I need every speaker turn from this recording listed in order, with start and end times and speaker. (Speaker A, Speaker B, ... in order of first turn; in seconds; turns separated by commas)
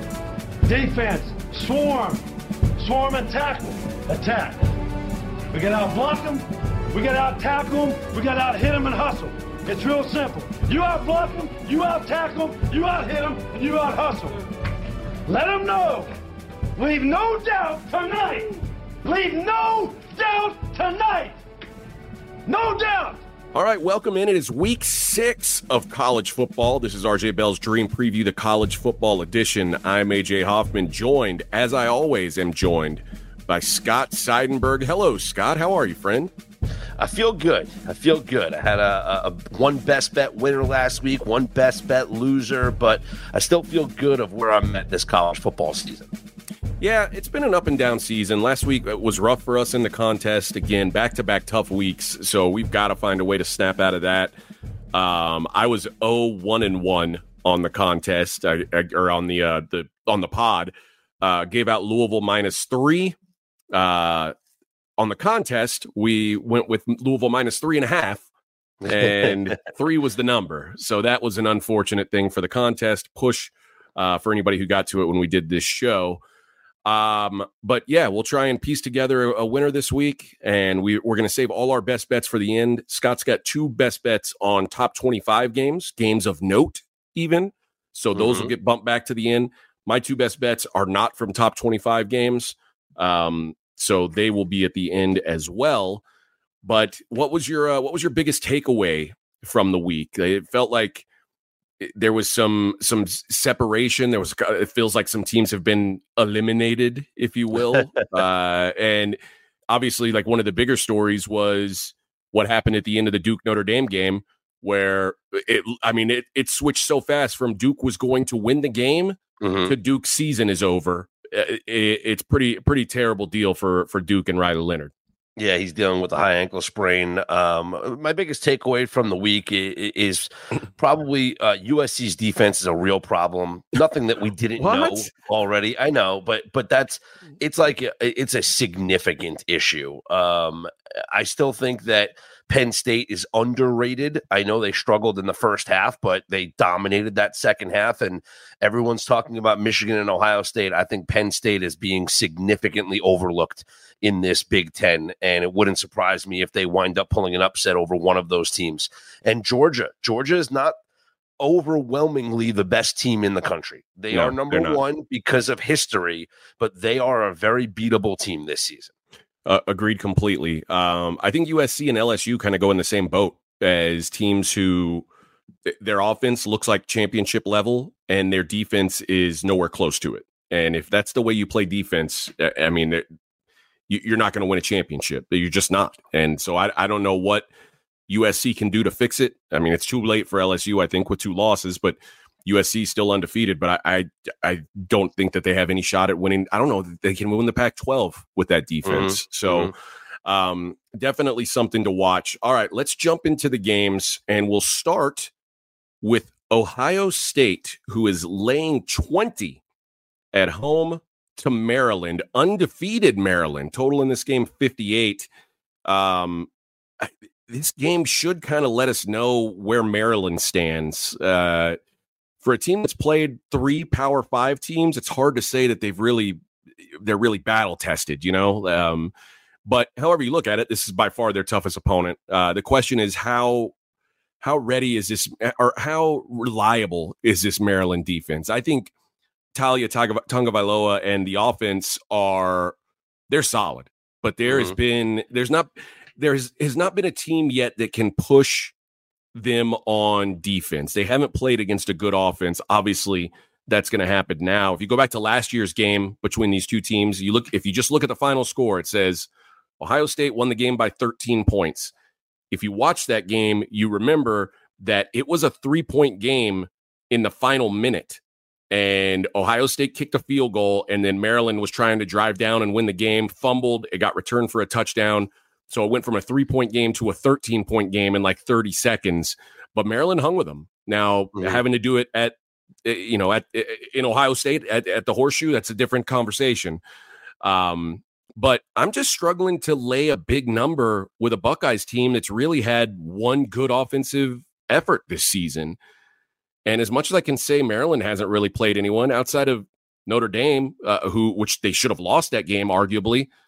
Speaker A: 0.6-2.2, Speaker A: 2.8-4.7, Speaker A: 5.5-14.4, Speaker A: 15.2-16.1, Speaker A: 16.8-21.4, Speaker A: 22.4-23.2, Speaker B: 23.5-36.3, Speaker C: 37.0-46.1, Speaker B: 46.8-54.3, Speaker B: 54.9-63.1, Speaker B: 63.7-64.3, Speaker B: 65.0-68.2, Speaker C: 68.8-69.4, Speaker B: 68.8-76.2, Speaker B: 76.8-96.0, Speaker C: 88.1-88.5, Speaker B: 96.6-101.0, Speaker B: 101.8-109.2, Speaker B: 109.7-124.9, Speaker C: 119.4-119.7, Speaker C: 125.4-160.7, Speaker B: 134.6-135.1, Speaker C: 161.4-168.9, Speaker B: 164.1-164.8, Speaker B: 169.4-175.1, Speaker B: 175.7-183.0, Speaker B: 183.9-187.5, Speaker B: 188.1-199.7, Speaker C: 198.8-199.7, Speaker B: 200.2-205.3, Speaker B: 206.0-209.6, Speaker B: 210.3-215.3, Speaker B: 215.8-216.5, Speaker B: 217.0-221.8, Speaker B: 222.4-226.4, Speaker B: 226.9-229.1, Speaker B: 229.7-233.7, Speaker B: 234.4-238.9, Speaker B: 239.5-242.8, Speaker B: 243.3-248.7, Speaker C: 244.4-244.8, Speaker B: 249.3-259.3, Speaker B: 259.8-261.9, Speaker B: 262.5-286.8, Speaker B: 287.4-295.8, Speaker B: 296.6-303.3